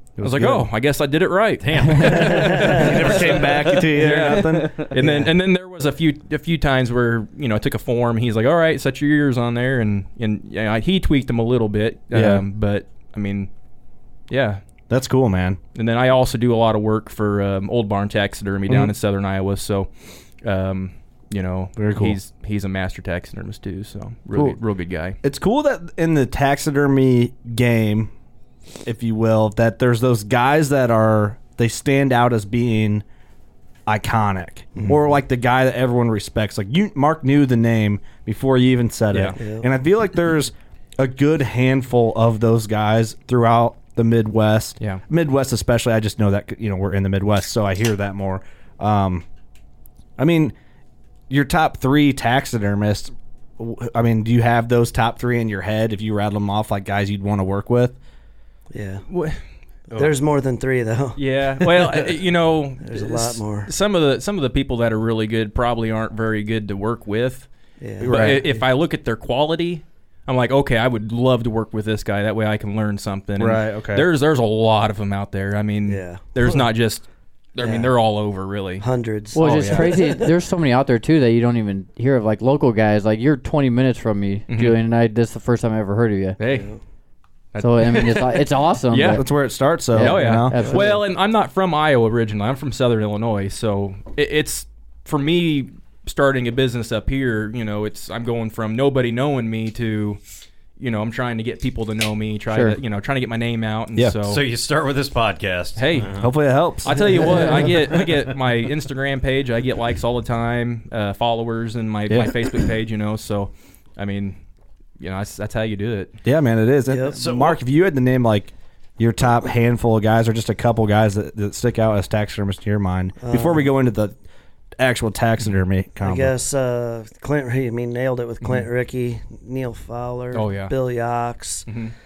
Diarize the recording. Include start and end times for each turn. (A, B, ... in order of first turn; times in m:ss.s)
0:00.2-0:00.7 A
0:00.2-0:13.5 B
0:01.6-0:03.6 C
0:02.3-0:05.0 A
0:05.0-0:05.3 D
0:12.1-0:12.4 A
0:14.3-0:14.6 B
0:14.9-0:15.6 A
0:15.8-0:19.9 B
0:18.7-0:18.9 A
0:20.4-0:25.2 B
0:21.8-0:22.2 A
0:25.2-0:28.1 A
0:28.8-0:33.0 A
0:33.9-0:49.2 A
0:39.1-0:39.4 B
0:39.4-0:39.7 D
0:50.2-0:50.5 A
0:51.3-0:58.0 A
0:58.7-0:59.0 D
0:59.1-0:59.4 B
0:59.9-1:02.0 D
1:01.2-1:07.5 B
1:02.8-1:03.7 D
1:07.8-1:08.6 D
1:08.0-1:08.4 A
1:08.0-1:18.8 B
1:13.4-1:14.1 A
1:15.9-1:16.7 D
1:17.6-1:17.9 D
1:18.8-1:20.3 D
1:19.3-1:26.4 E
1:19.4-1:19.9 B
1:24.5-1:24.8 B
1:26.4-1:26.7 B
1:26.5-1:26.8 D
1:27.5-1:29.3 B
1:27.6-1:31.0 E
1:29.1-1:30.8 A
1:29.9-1:40.2 B
1:40.8-1:44.4 B
1:42.5-1:42.8 E
1:44.3-1:46.3 C
1:45.8-1:46.2 B
1:46.1-1:47.6 A
1:46.8-1:54.4 B
1:52.1-1:52.4 A
1:55.0-1:56.1 B
1:56.2-2:04.2 A
1:56.9-1:57.2 D
1:57.2-1:57.6 C
2:03.2-2:03.7 D
2:04.8-2:06.3 A
2:06.0-2:11.7 D
2:10.3-2:10.7 B
2:11.7-2:11.9 B